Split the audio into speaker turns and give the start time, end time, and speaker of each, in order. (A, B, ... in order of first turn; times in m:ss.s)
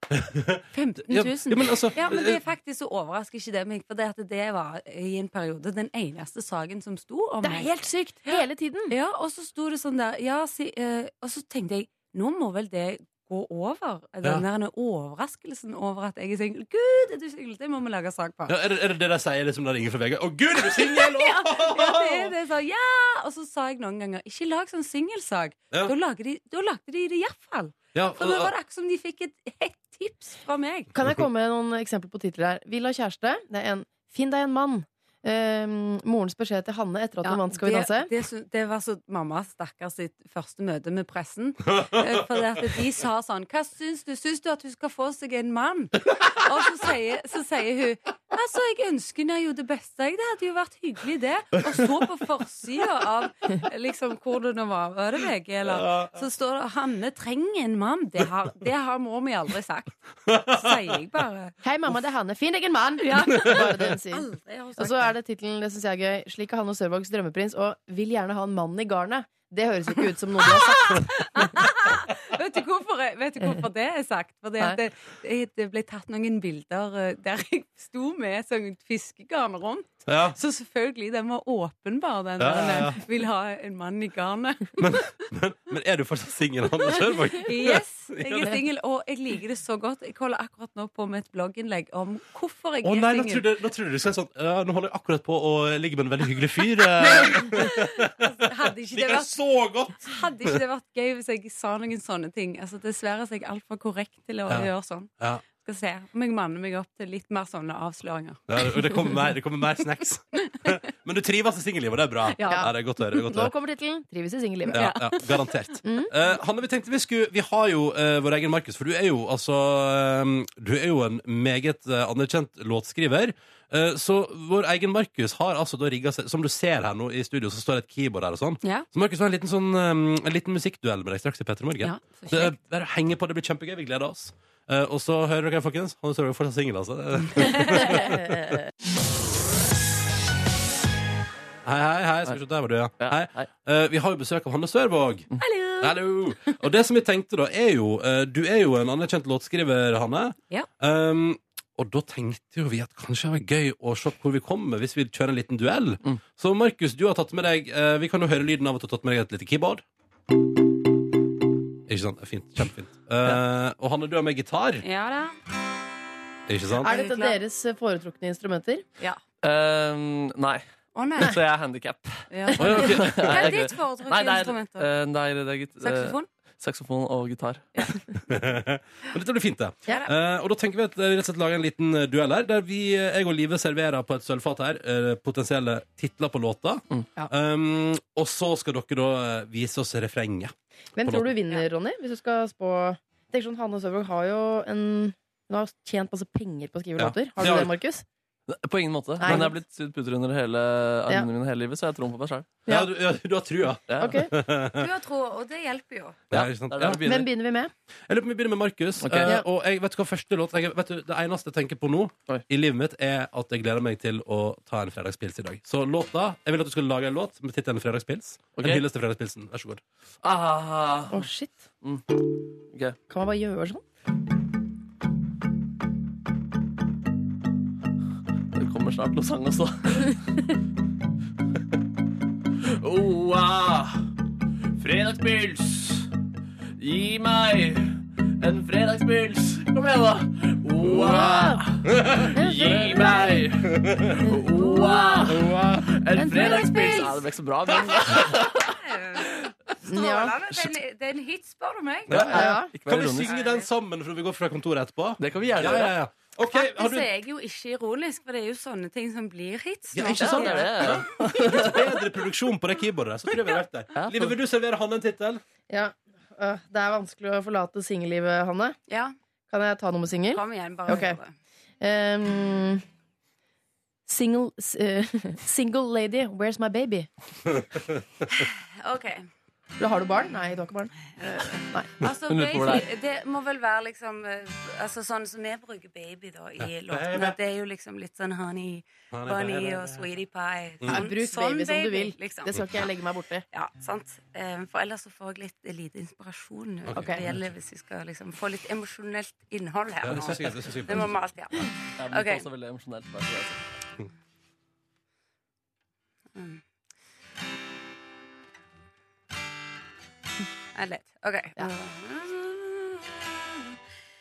0:00.1-0:02.4 A
0:00.7-0:07.7 B
0:07.4-0:08.9 C
0:08.3-0:18.6 B
0:18.5-0:22.4 A
0:20.6-0:30.9 B
0:28.0-0:28.5 A
0:30.9-0:38.1 C
0:37.2-1:01.5 B
0:41.9-0:42.2 A
0:55.7-0:56.2 A
1:00.3-1:00.8 A
1:01.6-1:11.1 C
1:03.0-1:05.1 B
1:10.4-1:25.0 B
1:20.1-1:20.4 A
1:22.4-1:23.0 A
1:24.8-1:28.6 A
1:27.3-1:33.5 B
1:32.8-1:40.6 A
1:37.2-1:39.4 B
1:40.0-1:49.2 B
1:44.5-1:45.4 A
1:48.5-1:53.5 A
1:52.3-1:53.2 B
1:52.5-1:54.8 C
1:54.7-1:55.6 B
1:54.7-2:18.6 A
1:55.8-1:56.1 C
2:08.6-2:08.9 B
2:11.8-2:12.6 B
2:17.4-2:17.9 B
2:21.6-2:25.3 A
2:23.0-2:23.5 D
2:25.4-2:25.9 B
2:25.8-2:39.8 A
2:41.9-2:44.8 A
2:44.8-2:45.3 B
2:46.5-2:46.9 A
2:46.8-2:47.4 B
2:46.8-2:48.8 C
2:49.4-2:50.6 D
2:50.9-2:51.4 B
2:51.2-2:57.7 D
2:52.3-2:54.9 B
2:52.6-2:53.5 A
2:55.8-2:56.3 B
2:58.3-3:11.3 A
3:11.0-3:18.0 C
3:17.0-3:17.7 A
3:18.5-3:22.5 D
3:19.2-3:19.5 C
3:22.7-3:24.9 A
3:23.9-3:24.2 D
3:24.0-3:24.3 C
3:24.7-3:26.2 B
3:26.3-3:27.0 A
3:26.3-3:27.3 D
3:27.0-3:27.7 C
3:28.1-3:39.8 A
3:29.0-3:29.3 D
3:38.6-3:38.8 D
3:40.2-3:41.3 D
3:41.1-3:41.6 C
3:42.7-3:43.0 D
3:43.1-3:43.8 C
3:48.5-3:50.4 D
3:52.6-3:54.1 D
3:54.8-3:56.1 D
3:56.8-4:08.7 D
4:00.8-4:01.6 C
4:01.9-4:02.7 A
4:02.3-4:03.4 C
4:03.6-4:04.1 A
4:04.2-4:05.1 C
4:04.6-4:05.3 B
4:05.3-4:05.9 A
4:06.2-4:06.8 C
4:06.2-4:07.3 B
4:08.6-4:09.3 B
4:09.9-4:10.4 C
4:09.9-4:12.4 B
4:12.1-4:13.3 D
4:12.1-4:17.1 A
4:12.3-4:12.7 C
4:13.2-4:13.7 B
4:15.2-4:16.0 D
4:16.5-4:21.1 B
4:19.9-4:25.4 A
4:20.2-4:21.8 D
4:24.0-4:24.4 D
4:25.7-4:28.8 C
4:28.9-4:29.2 B
4:29.5-4:31.2 C
4:30.3-4:31.3 B
4:31.8-4:32.8 C
4:34.1-4:37.1 C
4:38.3-4:39.3 B
4:39.8-4:40.9 C
4:41.2-4:52.9 B
4:42.3-4:42.9 D
4:46.6-4:47.4 A
4:49.1-4:50.0 A
4:50.9-4:53.4 C
4:53.5-5:02.5 B
4:56.9-4:57.5 A
4:57.0-4:57.2 C
5:00.0-5:01.2 A
5:02.0-5:03.6 D
5:06.4-5:06.6 B
5:10.8-5:13.6 B